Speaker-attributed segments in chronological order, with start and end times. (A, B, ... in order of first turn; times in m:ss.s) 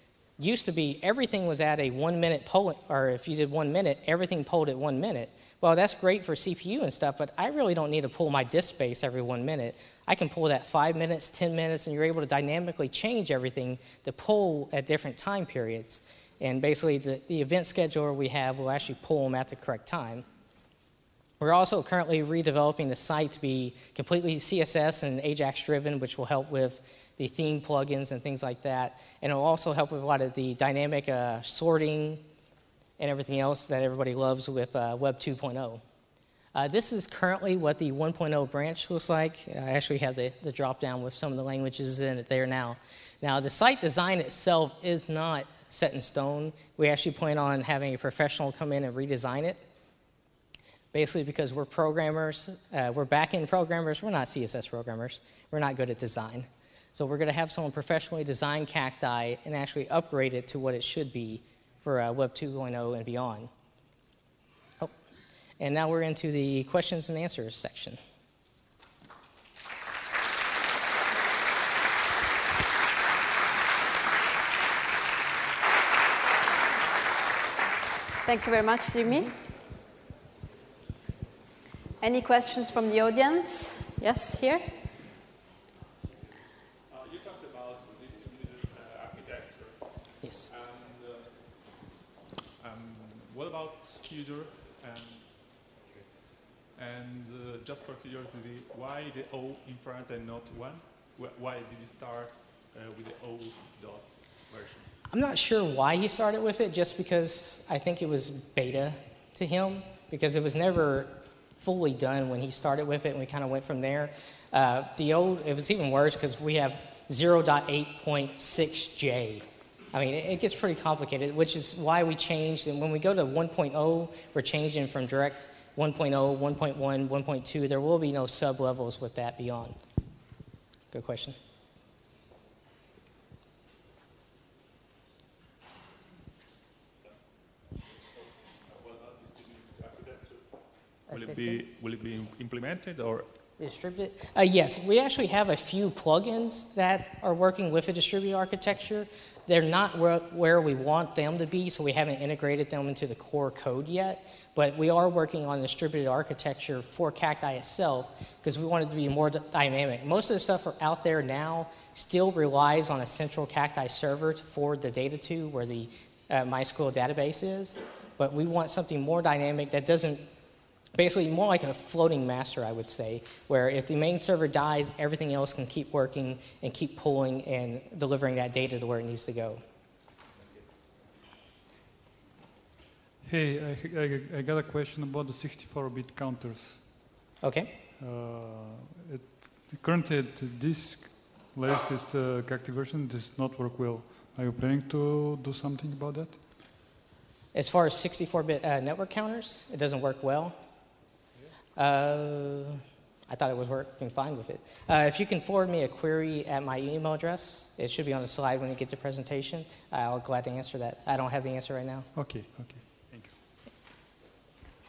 0:00.4-0:20.2 A
0:21.4-0:32.2 A
0:33.0-0:35.8 A
0:36.5-0:49.6 A
0:50.9-1:03.5 A
1:05.6-1:08.0 A
1:18.2-1:19.3 B
1:22.0-1:24.7 B
1:26.9-1:31.9 C
1:30.2-1:30.5 A
1:32.6-1:35.8 C
1:36.7-1:44.9 C
1:45.1-2:09.7 A
2:10.9-2:11.4 A
2:17.7-2:23.3 C
2:21.1-2:21.6 A
2:23.6-2:50.3 A
2:50.9-2:59.6 A
3:03.2-3:07.1 D
3:07.4-3:07.7 A
3:08.0-3:16.4 D
3:17.5-3:20.6 A
3:21.8-3:32.1 A
3:32.1-3:33.4 D